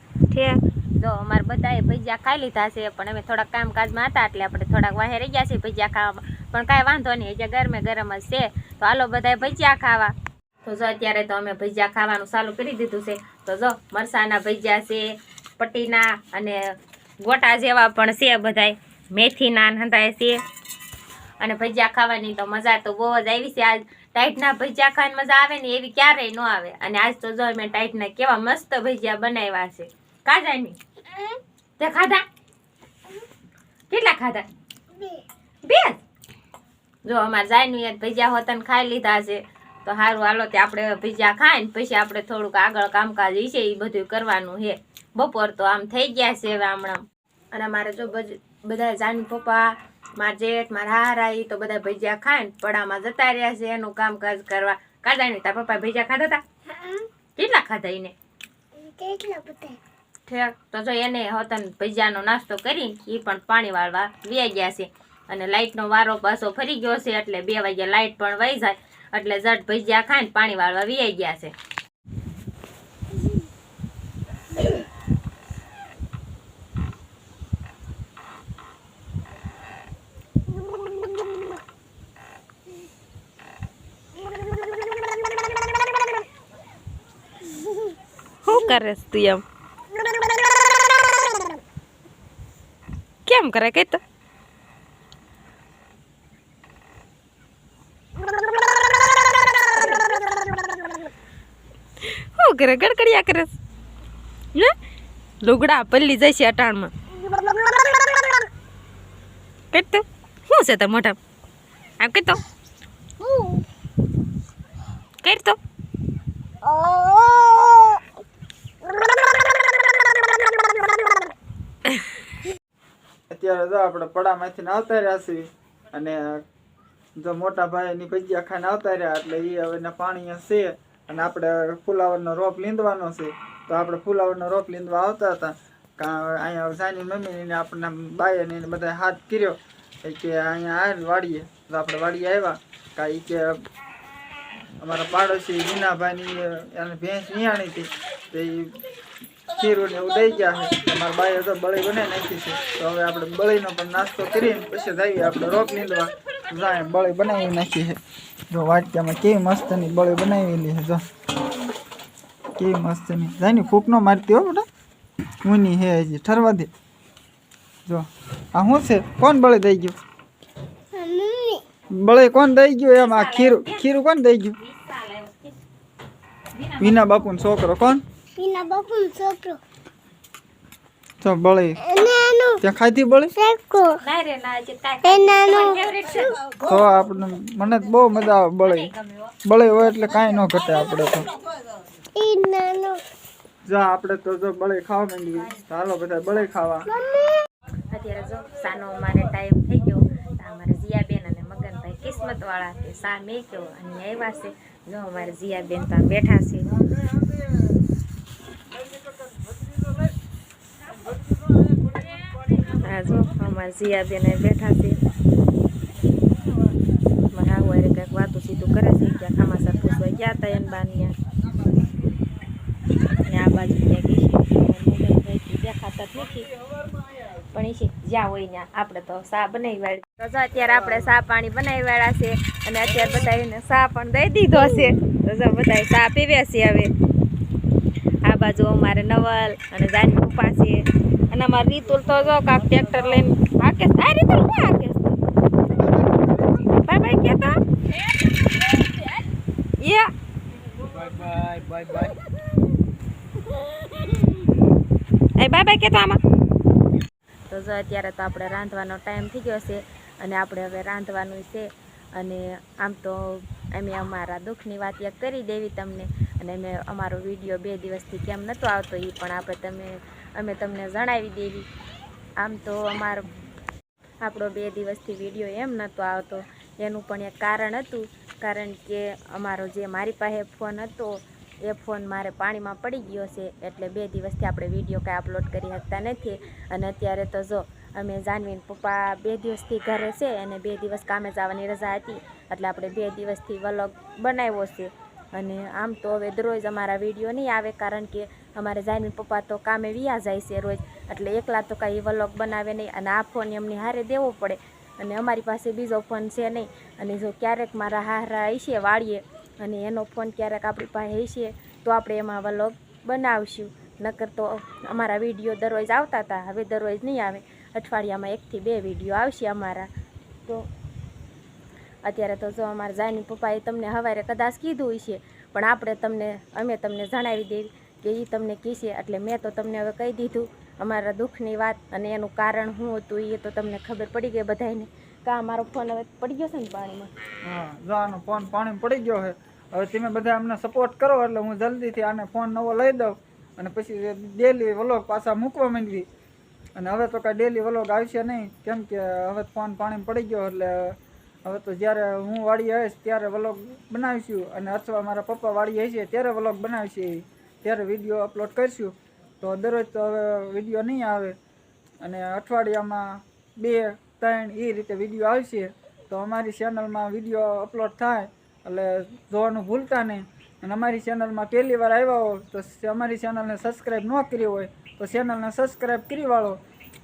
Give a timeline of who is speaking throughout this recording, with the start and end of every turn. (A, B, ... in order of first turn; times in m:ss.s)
0:00.3-0:15.1 A
0:15.6-0:20.4 A
0:21.4-0:30.8 A
0:31.8-0:32.2 A
0:33.9-0:34.5 A
0:35.6-0:36.0 A
0:37.0-0:56.4 A
0:56.8-0:57.0 B
0:57.4-0:58.1 A
0:58.8-0:59.8 B
1:00.3-1:11.5 A
1:28.4-1:29.4 A
1:33.3-1:34.0 A
1:42.0-1:43.6 A
1:45.4-1:46.9 A
1:49.7-1:51.2 A
1:52.0-1:52.4 A
1:53.2-1:53.6 B
1:55.2-1:55.6 A
1:56.6-1:58.0 B
2:03.3-2:06.4 C
2:07.2-2:23.6 C
2:24.8-2:28.8 C
2:29.5-2:41.0 C
2:42.6-2:44.6 C
2:45.4-2:46.7 C
2:47.9-2:50.0 C
2:50.9-2:51.6 B
2:51.9-2:54.6 C
2:53.0-2:53.9 A
2:54.6-2:55.6 A
2:56.5-2:57.0 A
2:56.8-2:58.0 C
2:58.4-2:59.6 B
3:01.2-3:01.8 C
3:01.8-3:02.6 B
3:02.6-3:03.4 C
3:03.4-3:04.0 B
3:04.0-3:06.4 A
3:05.0-3:06.3 B
3:06.6-3:08.9 C
3:08.6-3:09.3 A
3:09.4-3:11.3 C
3:12.2-3:13.0 B
3:13.7-3:16.9 C
3:17.0-3:17.4 B
3:17.9-3:26.8 A
3:32.7-3:35.0 A
3:37.3-3:41.1 A
3:43.2-3:46.5 A
3:47.5-3:56.9 A
3:58.2-4:05.2 A
4:06.7-4:07.6 A
4:08.8-4:09.0 A
4:09.8-4:10.1 A
4:11.3-4:12.1 A
4:15.4-4:16.2 A
4:17.5-4:31.7 A
4:32.4-4:33.3 A
4:34.2-5:19.9 A
5:22.0-5:37.2 A
5:37.4-5:46.1 C
5:46.8-6:01.4 C
6:02.0-6:16.6 C